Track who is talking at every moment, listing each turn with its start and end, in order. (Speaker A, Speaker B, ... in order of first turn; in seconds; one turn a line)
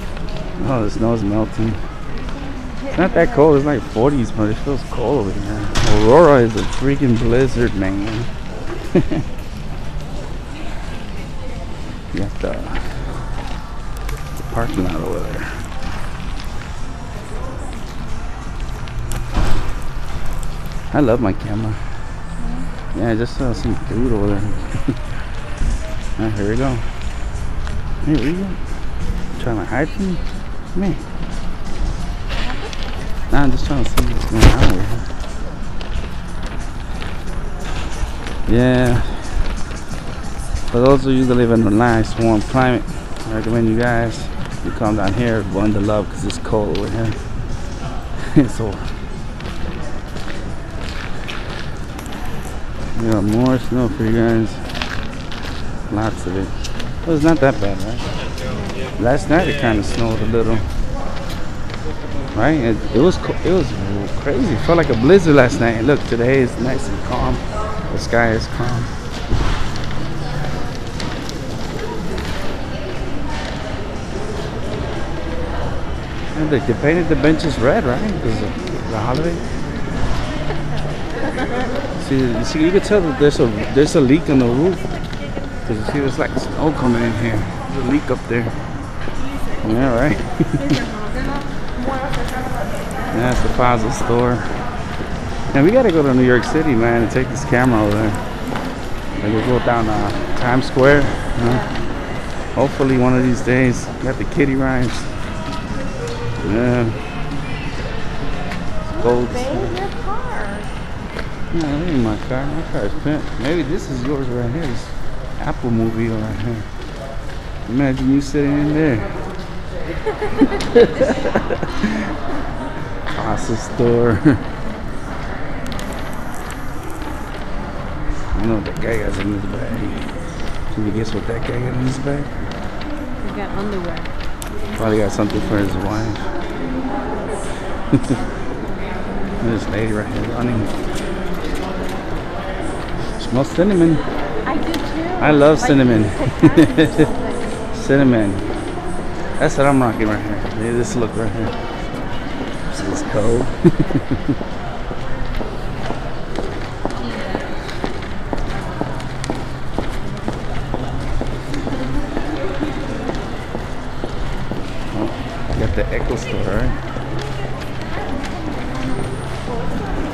Speaker A: 0.6-1.8
Speaker B: 2.6-3.5
Speaker A: 2.9-8.3
Speaker A: 8.9-9.2
Speaker A: 12.1-12.9
Speaker A: 14.4-15.6
Speaker A: 20.9-21.8
Speaker B: 22.4-22.7
Speaker A: 22.9-25.0
Speaker A: 26.2-26.8
Speaker A: 28.0-28.6
Speaker A: 29.4-30.2
Speaker A: 30.8-31.0
Speaker B: 32.4-32.7
Speaker A: 33.3-35.1
Speaker A: 38.5-39.5
Speaker A: 40.7-47.2
Speaker A: 48.2-48.9
Speaker A: 53.0-54.6
Speaker A: 55.9-56.5
Speaker A: 57.0-58.0
Speaker B: 58.5-58.8
Speaker A: 59.0-60.7
Speaker A: 62.3-68.9
Speaker A: 76.3-79.4
Speaker A: 82.0-84.9
Speaker A: 85.7-88.5
Speaker A: 89.6-90.7
Speaker B: 90.7-91.2
Speaker A: 93.1-94.6
Speaker A: 95.5-98.2
Speaker A: 99.2-101.7
Speaker B: 101.4-101.7
Speaker A: 102.5-105.1
Speaker A: 106.4-107.0
Speaker B: 108.9-110.7
Speaker A: 109.0-109.8
Speaker A: 111.5-116.7
Speaker A: 117.7-119.2
Speaker A: 120.4-121.9
Speaker A: 123.1-124.4
Speaker A: 128.3-130.1
Speaker A: 130.7-132.4
Speaker B: 133.2-134.1
Speaker A: 134.8-136.3
Speaker A: 139.4-140.7
Speaker A: 143.2-144.0
Speaker B: 144.4-147.6
Speaker A: 145.2-147.0
Speaker A: 147.7-148.5
Speaker A: 149.4-151.5
Speaker A: 152.7-154.0
Speaker A: 164.9-166.8